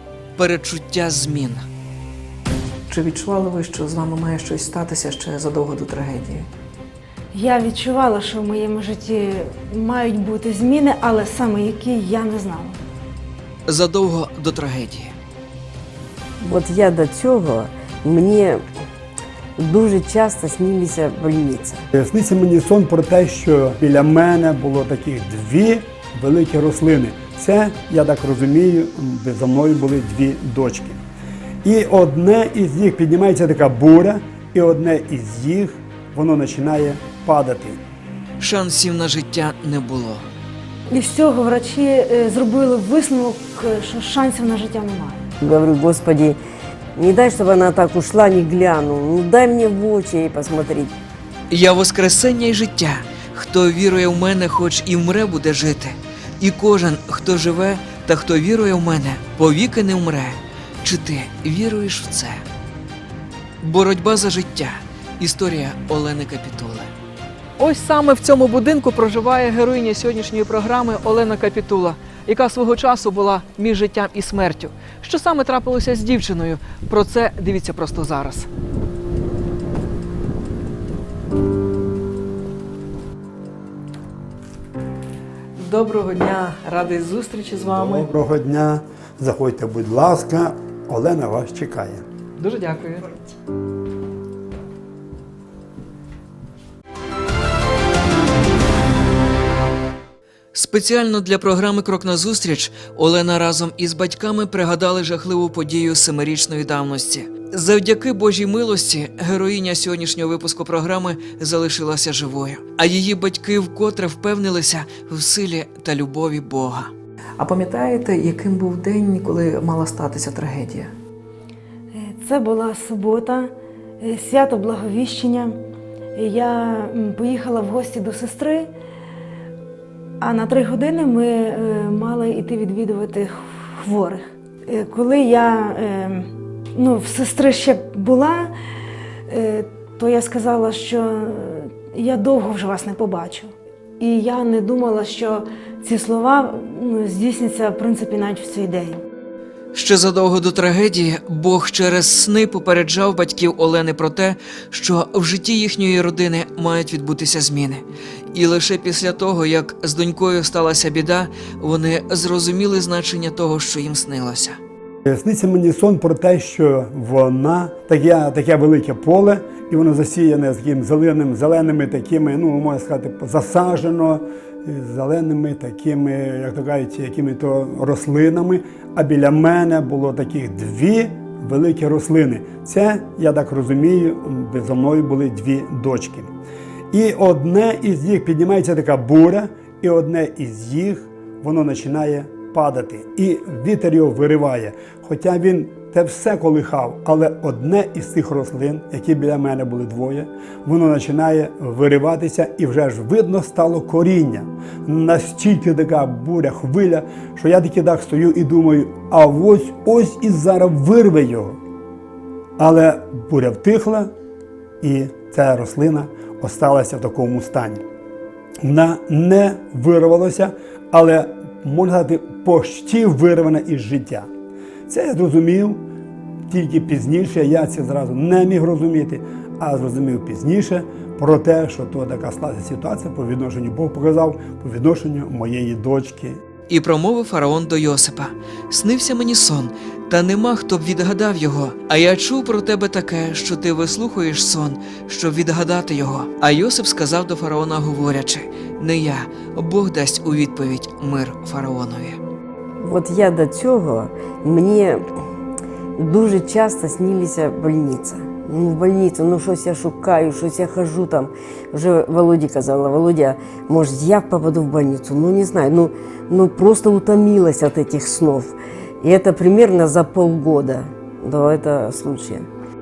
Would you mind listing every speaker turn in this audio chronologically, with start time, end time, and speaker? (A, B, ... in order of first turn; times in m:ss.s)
0:00.4-0:01.7 A
0:02.9-0:06.5 A
0:07.3-0:12.8 B
0:13.7-0:15.1 A
0:16.4-0:18.6 C
0:19.6-0:21.8 C
0:21.9-0:31.0 D
0:31.6-0:37.8 D
0:38.4-0:40.3 A
0:40.9-0:45.3 B
0:45.4-0:46.4 C
0:47.0-0:50.9 C
0:51.5-1:02.4 A
1:03.6-1:06.9 A
1:07.6-1:18.5 A
1:25.6-1:28.1 A
1:27.8-1:32.0 D
1:32.4-1:33.2 A
1:40.5-2:00.9 A
2:01.9-2:05.6 B
2:06.2-2:08.7 B
2:10.2-2:18.5 B
2:19.3-2:29.0 B
2:29.7-2:44.6 A
2:45.1-3:06.3 D
3:06.9-3:31.6 D
3:32.6-3:34.1 D
3:34.8-3:37.8 D
3:38.6-3:44.3 D
3:44.9-3:45.8 D
3:46.5-3:56.4 D
3:56.7-4:12.2 A
4:12.8-4:15.1 C
4:16.0-4:32.5 C